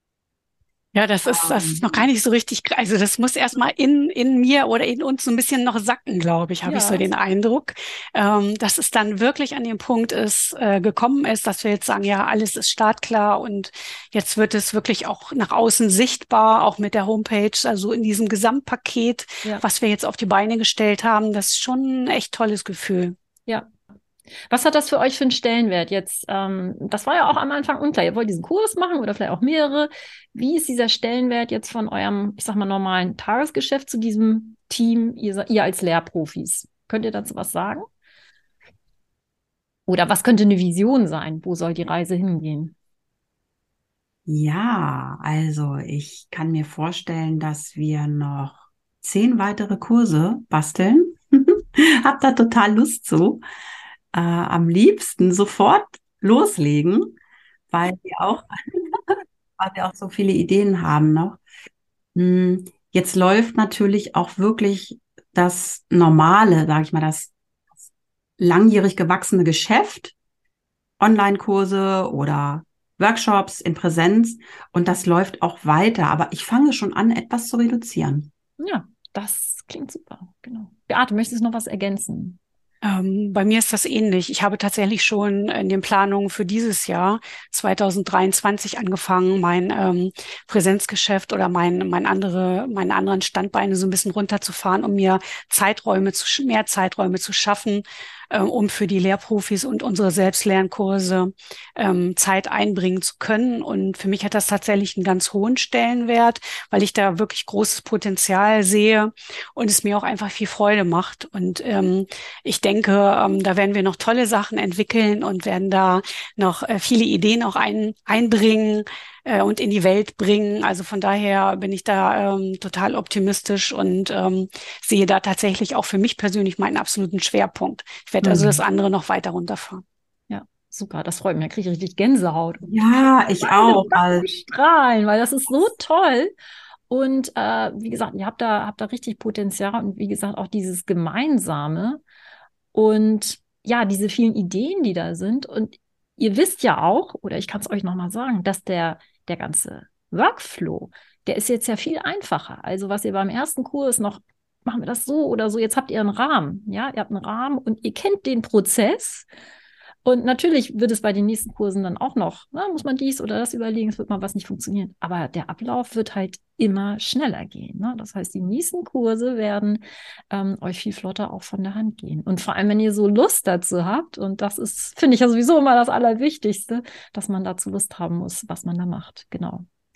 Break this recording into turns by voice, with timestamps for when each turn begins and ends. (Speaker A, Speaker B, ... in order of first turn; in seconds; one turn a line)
Speaker A: 0.9-23.1
Speaker B: 1.3-2.0
Speaker C: 6.7-7.0
Speaker C: 24.5-37.9
Speaker C: 39.9-42.7
Speaker B: 44.3-53.4
Speaker B: 54.1-57.1
Speaker B: 57.7-61.4
Speaker B: 62.1-67.9
Speaker B: 68.4-70.1
Speaker B: 71.0-78.3
Speaker C: 78.6-82.4
Speaker A: 82.8-129.8
Speaker B: 128.2-128.6
Speaker C: 130.3-132.7
Speaker B: 132.6-134.3
Speaker C: 133.4-136.3
Speaker C: 136.9-142.0
Speaker C: 142.7-159.3
Speaker C: 160.0-179.6